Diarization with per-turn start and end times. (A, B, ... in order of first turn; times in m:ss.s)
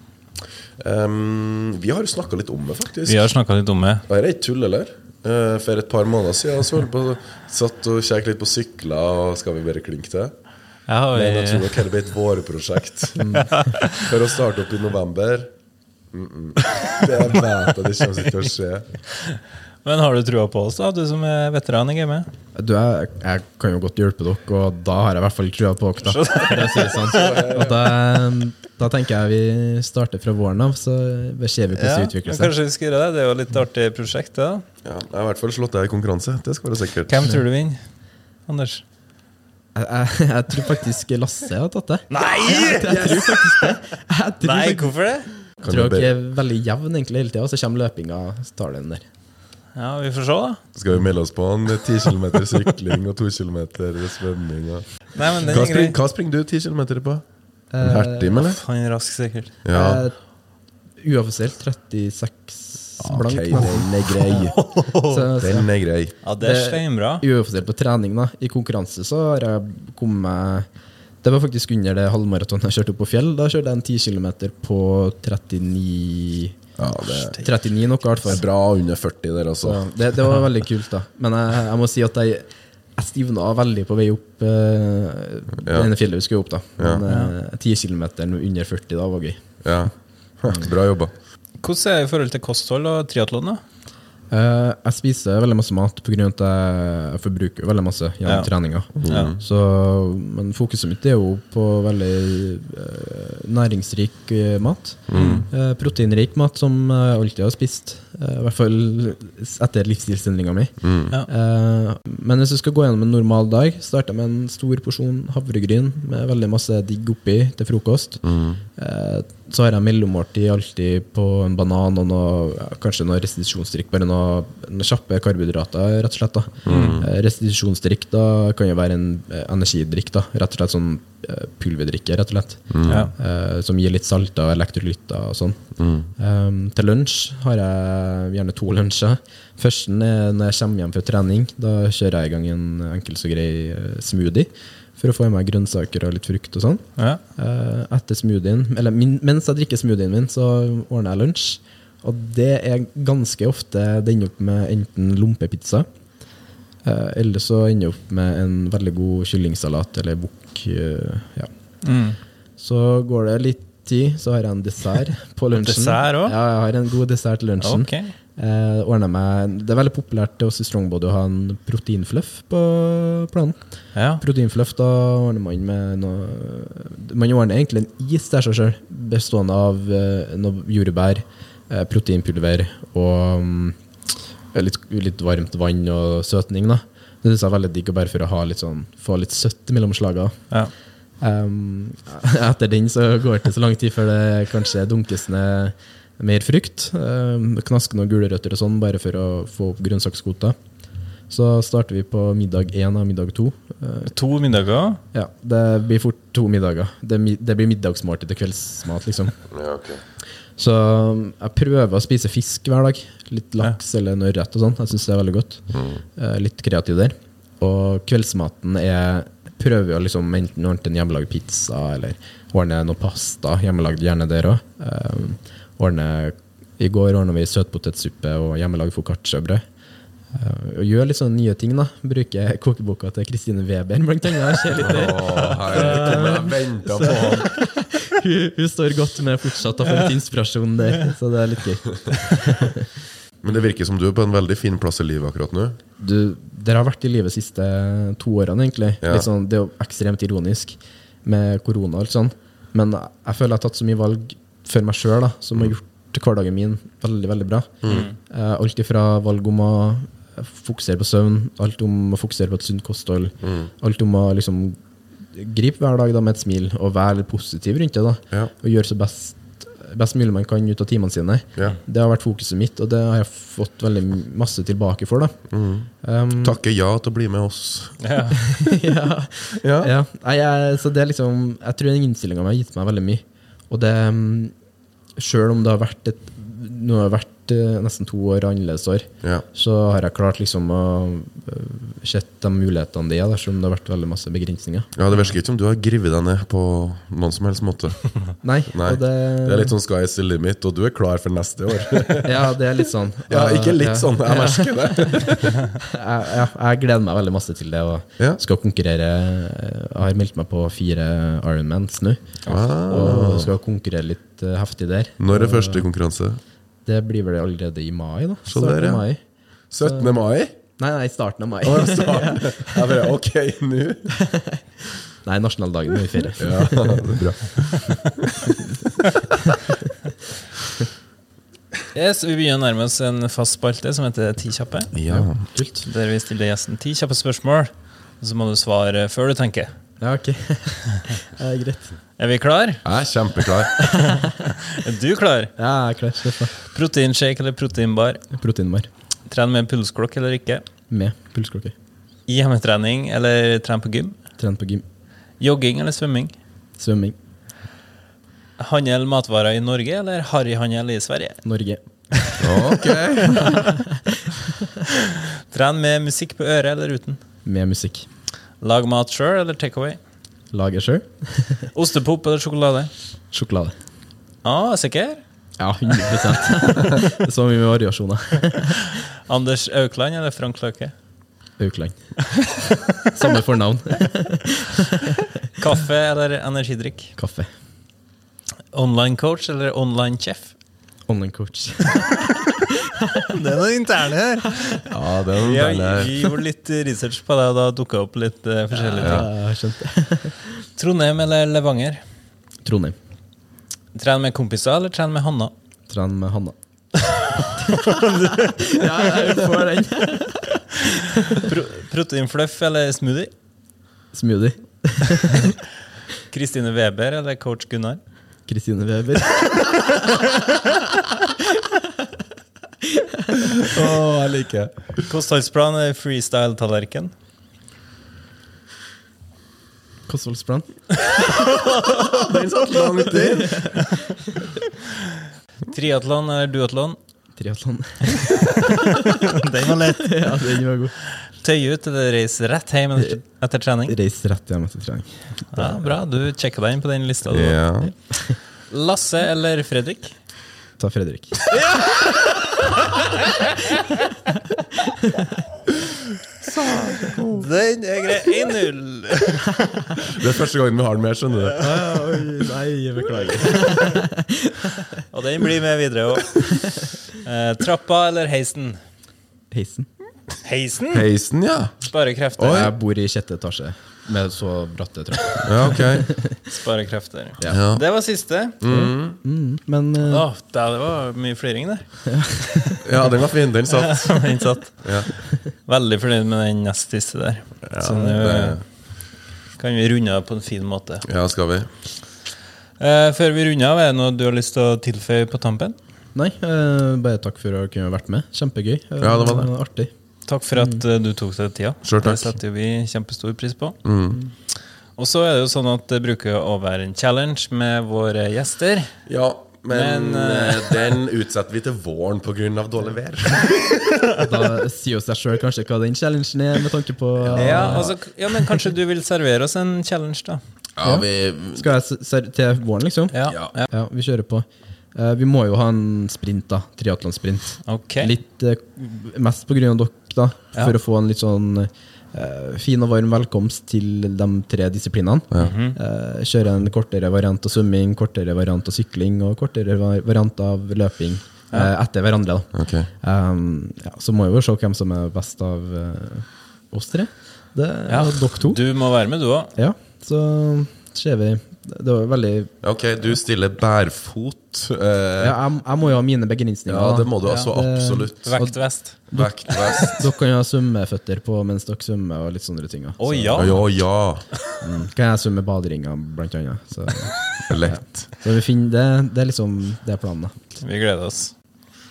0:00.8-0:03.3 A
0:03.1-0:04.1 B
0:04.1-0:10.4 A
0:10.9-0:11.8 B
0:11.1-0:13.3 A
0:13.2-0:13.5 C
0:13.3-0:14.1 B
0:13.9-0:15.5 A
0:16.1-0:18.9 A
0:19.2-0:22.3 B
0:22.6-0:32.5 C
0:26.1-0:27.4 B
0:27.0-0:27.8 A
0:31.8-0:34.6 B
0:34.8-0:37.1 A
0:37.1-0:38.8 B
0:39.8-0:44.9 C
0:42.1-0:43.7 B
0:44.4-0:45.3 B
0:45.6-0:46.1 A
0:45.6-0:49.0 C
0:49.8-0:50.6 B
0:50.8-0:57.2 A
0:55.1-0:56.0 B
0:57.7-0:58.5 C
0:57.8-0:58.6 A
0:58.4-0:59.6 B
0:59.6-1:00.0 A
0:59.7-1:00.2 C
1:01.0-1:05.7 C
1:03.0-1:04.6 A
1:04.4-1:05.3 B
1:05.4-1:06.2 A
1:06.2-1:07.2 B
1:06.4-1:10.7 C
1:11.2-1:16.6 C
1:16.8-1:17.4 A
1:17.1-1:18.4 C
1:18.3-1:20.0 A
1:19.6-1:29.6 C
1:25.6-1:25.9 A
1:27.1-1:27.3 B
1:29.6-1:31.1 A
1:31.6-1:33.6 B
1:34.3-1:50.8 C
1:38.2-1:39.4 B
1:39.0-1:39.4 A
1:45.1-1:45.4 A
1:45.1-1:45.5 B
1:50.8-1:51.1 A
1:51.3-1:58.2 C
1:58.2-1:58.6 A
1:58.8-2:35.9 C
2:06.6-2:07.1 A
2:06.7-2:07.0 B
2:12.7-2:13.1 A
2:12.9-2:13.1 B
2:15.8-2:16.1 A
2:36.8-2:41.5 C
2:41.8-2:42.2 B
2:42.6-2:53.6 C
2:45.6-2:46.3 B
2:47.6-2:48.1 B
2:53.9-2:54.2 B
2:54.2-3:03.8 C
3:04.5-3:10.4 C
3:11.2-3:20.6 C
3:21.3-3:24.1 C
3:24.1-3:25.0 B
3:25.1-3:29.4 C
3:29.5-3:30.0 A
3:30.6-3:49.6 C
3:35.7-3:36.0 A
3:50.3-4:02.9 C
3:54.8-3:57.5 A
3:55.7-3:56.5 B
4:03.4-4:05.8 A
4:06.0-4:24.8 C
4:17.8-4:18.1 A
4:17.9-4:18.2 B
4:23.4-4:23.7 A
4:25.3-4:35.4 C
4:35.5-4:38.1 A
4:36.0-4:36.6 C
4:38.0-4:38.4 B
4:38.4-4:44.5 C
4:39.6-4:39.9 A
4:45.2-4:54.9 C
4:55.0-5:02.4 A
4:58.4-4:59.7 C
5:02.2-5:15.9 C
5:03.3-5:05.7 A
5:12.5-5:13.5 A
5:15.2-5:16.4 A
5:16.9-5:19.2 C
5:18.5-5:19.0 A
5:19.7-5:20.6 A
5:19.8-5:20.1 C
5:20.7-5:23.1 C
5:21.6-5:24.2 A
5:24.2-5:27.1 C
5:26.4-5:28.5 A
5:31.9-5:34.9 B
5:34.9-5:35.5 A
5:35.1-5:35.9 C
5:35.8-5:39.7 B
5:40.0-5:42.0 C
5:42.2-5:42.8 B
5:42.8-5:43.9 A
5:43.9-5:44.2 C
5:44.2-5:45.5 B
5:45.6-5:46.5 C
5:46.6-5:48.2 B
5:48.3-5:48.9 C
5:49.3-5:50.6 B
5:50.9-5:51.8 C
5:52.3-5:54.2 B
5:54.4-5:54.8 C
5:55.4-5:56.3 B
5:56.8-5:57.2 C
5:58.6-6:01.4 B
6:01.4-6:02.6 C
6:02.4-6:03.4 A
6:03.3-6:03.8 B
6:05.5-6:07.2 B
6:07.4-6:08.1 C
6:08.6-6:10.0 B
6:10.5-6:11.7 C
6:11.7-6:12.9 B
6:13.3-6:13.7 C
6:14.4-6:15.2 B
6:15.6-6:18.8 C
6:19.3-6:20.9 B
6:21.6-6:22.6 C
6:23.1-6:25.1 C
6:25.6-6:27.1 B
6:27.2-6:27.5 C
6:28.7-6:30.5 B
6:31.1-6:32.2 C
6:33.3-6:34.8 B
6:34.9-6:36.1 A
6:35.4-6:39.3 B
6:38.7-6:40.4 C
6:39.0-6:39.3 A
6:40.8-6:42.0 B
6:42.6-6:43.0 C
6:43.9-6:45.5 B
6:45.9-6:46.6 C
6:47.2-6:49.3 B
6:47.7-6:48.0 C
6:48.6-6:51.4 C
6:51.3-6:53.3 B
6:54.1-6:55.5 C
6:56.3-6:58.0 B
6:58.5-7:00.0 C
7:02.8-7:03.4 C
7:03.6-7:05.1 A
7:05.1-7:07.1 B
7:10.1-7:11.1 C
7:11.2-7:14.0 B
7:11.9-7:13.8 A
7:13.0-7:14.5 C
7:15.7-7:17.0 B
7:17.4-7:18.6 C
7:18.4-7:20.3 B
7:20.0-7:21.0 C
7:21.0-7:24.0 B
7:23.9-7:25.8 C
7:25.5-7:27.6 B
7:27.3-7:27.9 A
7:27.8-7:28.4 C
7:28.7-7:30.2 B
7:30.8-7:31.4 C
7:31.5-7:33.9 B
7:35.0-7:35.4 C
7:36.5-7:37.4 A
7:37.3-7:39.5 B
7:40.1-7:41.6 A
7:41.6-7:45.0 C
7:45.1-7:46.6 B
7:47.1-7:48.8 B
7:49.5-7:49.9 C
7:50.4-7:51.1 B
7:50.9-7:51.8 A
7:51.8-7:52.7 B
7:52.4-7:52.7 A
7:52.5-7:56.4 C
7:55.4-7:56.1 A
7:56.5-7:58.6 B
7:57.5-7:57.8 A
7:58.6-7:59.2 A
7:58.7-8:00.3 C
8:00.1-8:02.8 B
8:02.1-8:02.8 C
8:02.8-8:05.2 A
8:03.8-8:08.9 B
8:07.7-8:08.6 A
8:09.5-8:11.1 B
8:11.0-8:11.7 A
8:12.8-8:15.8 B
8:16.2-8:19.9 C
8:19.0-8:19.5 A
8:20.2-8:23.8 B
8:20.6-8:20.8 C
8:21.8-8:22.4 A
8:23.8-8:24.2 A
8:25.0-8:28.9 B
8:29.1-8:34.0 A
8:29.7-8:30.9 B
8:34.2-8:38.0 C
8:37.2-8:37.9 A
8:37.4-8:40.4 B
8:40.8-8:41.7 A
8:40.8-9:08.6 C
8:43.1-8:43.7 B
8:47.6-8:48.1 B
8:55.4-8:55.8 B
9:02.5-9:02.9 A
9:07.9-9:09.6 B
9:09.6-9:12.5 C
9:12.6-9:15.4 A
9:15.2-9:23.6 C
9:16.7-9:20.0 A
9:17.2-9:17.5 B
9:18.2-9:19.9 B
9:23.0-9:23.7 B
9:23.4-9:24.4 A
9:24.6-9:30.4 C
9:27.5-9:28.1 A
9:30.6-9:31.3 B